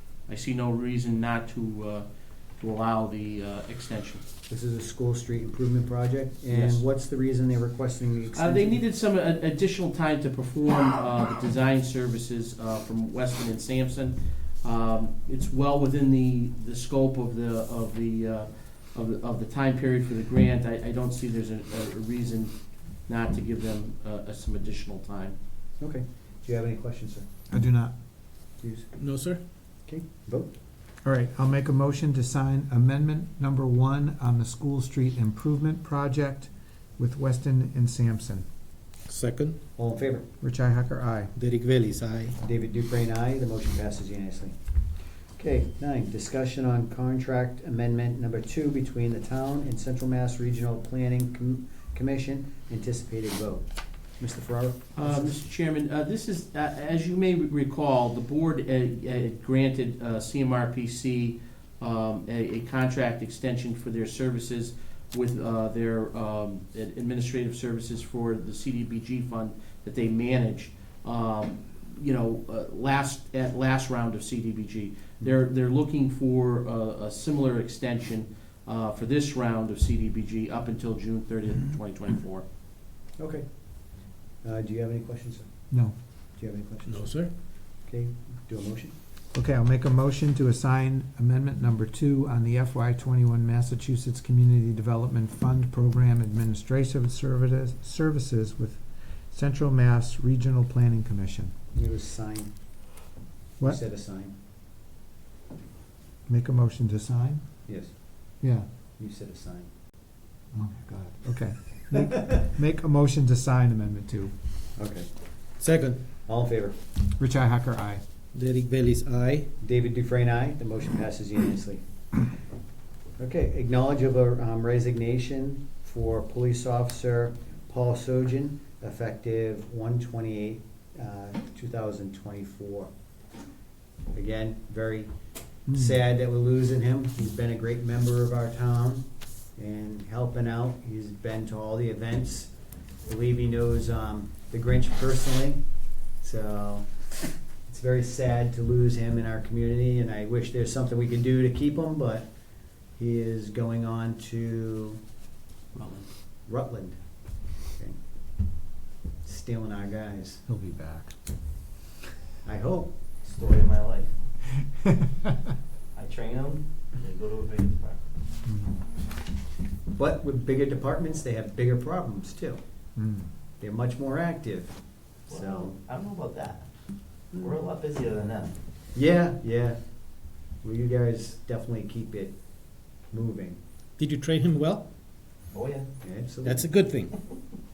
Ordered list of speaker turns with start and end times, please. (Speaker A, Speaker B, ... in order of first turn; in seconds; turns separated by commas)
Speaker A: 0.3-2.1, Speaker A: 2.6-4.2, Speaker B: 4.5-8.8, Speaker A: 6.5-6.8, Speaker A: 8.3-22.5, Speaker A: 23.1-25.4, Speaker B: 25.8-27.3, Speaker C: 27.5-27.9, Speaker B: 28.6-28.9, Speaker D: 29.0-29.4, Speaker B: 29.9-30.5, Speaker C: 31.0-38.5, Speaker D: 39.1-39.6, Speaker B: 39.8-40.3, Speaker C: 40.4-41.3, Speaker D: 41.4-42.4, Speaker B: 42.4-44.5, Speaker B: 45.4-53.6, Speaker B: 54.2-55.3, Speaker A: 55.0-82.5, Speaker B: 83.2-83.5, Speaker B: 84.4-85.5, Speaker B: 86.4-87.1, Speaker D: 86.9-87.3, Speaker B: 87.8-88.9, Speaker C: 89.3-101.6, Speaker B: 101.7-102.5, Speaker B: 103.7-104.3, Speaker C: 106.3-107.5, Speaker B: 107.7-107.9, Speaker C: 108.4-108.7, Speaker B: 109.0-109.7, Speaker C: 110.5-114.3, Speaker B: 114.8-115.1, Speaker D: 115.6-116.0, Speaker B: 116.2-116.8, Speaker C: 117.2-118.0, Speaker D: 118.3-119.5, Speaker B: 119.6-121.8, Speaker B: 123.2-132.9, Speaker B: 134.1-135.1, Speaker C: 135.7-136.0, Speaker B: 135.7-139.1, Speaker B: 139.6-142.5, Speaker B: 143.1-145.6, Speaker B: 146.2-146.9, Speaker B: 147.7-152.3, Speaker B: 153.0-155.0, Speaker A: 155.8-156.1, Speaker B: 156.5-157.0, Speaker B: 159.2-160.4, Speaker C: 160.5-161.1, Speaker B: 162.4-162.9, Speaker E: 163.2-164.2, Speaker E: 165.9-168.0, Speaker C: 168.4-168.8, Speaker B: 169.9-172.6, Speaker C: 173.0-173.3, Speaker B: 173.6-174.8, Speaker B: 175.3-175.8, Speaker E: 175.3-176.7, Speaker E: 177.3-178.6, Speaker B: 178.9-179.8, Speaker B: 180.6-182.3, Speaker B: 183.1-183.6, Speaker D: 184.0-184.9, Speaker E: 185.5-185.9, Speaker B: 186.0-186.7, Speaker D: 186.4-187.1